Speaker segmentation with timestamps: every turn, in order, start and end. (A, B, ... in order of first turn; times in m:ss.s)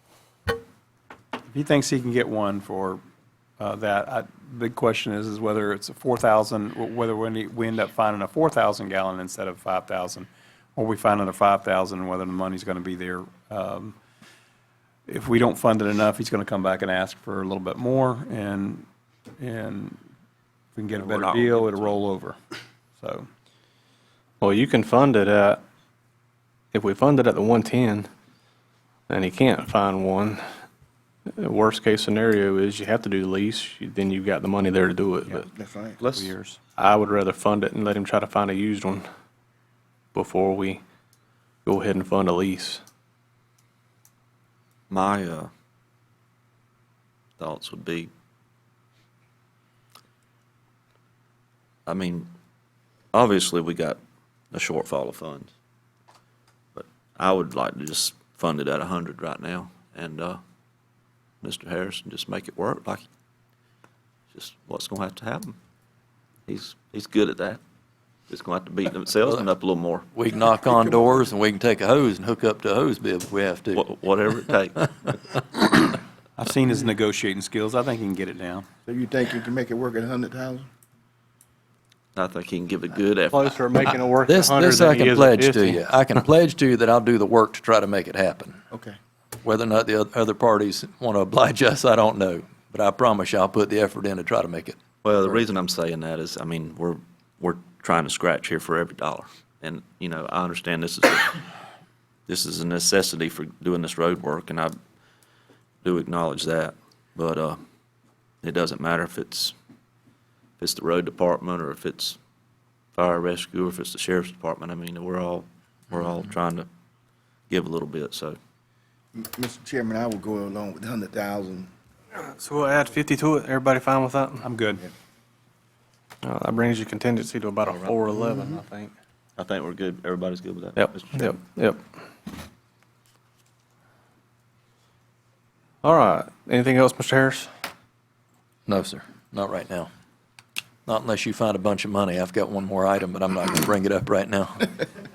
0:01.5-0:03.0 A
0:03.6-0:14.0 A
0:15.1-0:18.8 A
0:19.4-0:20.0 A
0:20.7-0:22.4 A
0:21.0-0:22.0 B
0:23.0-0:23.3 A
0:24.4-0:25.6 C
0:26.7-0:28.1 C
0:29.1-0:30.4 C
0:31.4-0:35.5 C
0:35.5-0:36.0 D
0:36.1-0:36.6 A
0:36.8-0:39.0 C
0:40.1-0:40.8 C
0:41.6-0:42.8 C
0:44.9-0:45.5 B
0:47.4-0:48.1 B
0:51.9-0:52.3 B
0:53.1-0:54.0 B
0:54.5-0:55.5 B
0:56.7-1:00.4 B
1:01.4-1:03.0 B
1:04.3-1:05.6 B
1:06.5-1:07.6 B
1:08.3-1:10.1 B
1:10.1-1:13.9 E
1:10.7-1:11.1 D
1:13.7-1:15.3 B
1:16.4-1:18.6 A
1:18.8-1:20.7 D
1:22.2-1:23.9 B
1:23.3-1:25.8 C
1:24.3-1:28.6 E
1:28.7-1:29.0 D
1:29.4-1:34.8 E
1:35.0-1:41.4 B
1:42.3-1:44.7 B
1:45.8-1:47.6 B
1:48.4-1:49.5 B
1:50.6-1:52.2 B
1:52.9-1:56.7 B
1:57.5-1:58.4 B
1:59.1-2:01.7 D
2:02.2-2:04.4 C
2:04.4-2:04.8 A
2:06.2-2:08.9 C
2:07.7-2:08.1 B
2:08.2-2:08.6 A
2:09.4-2:11.3 B
2:10.8-2:11.8 C
2:15.8-2:17.5 C
2:18.7-2:19.9 E
2:20.8-2:24.7 E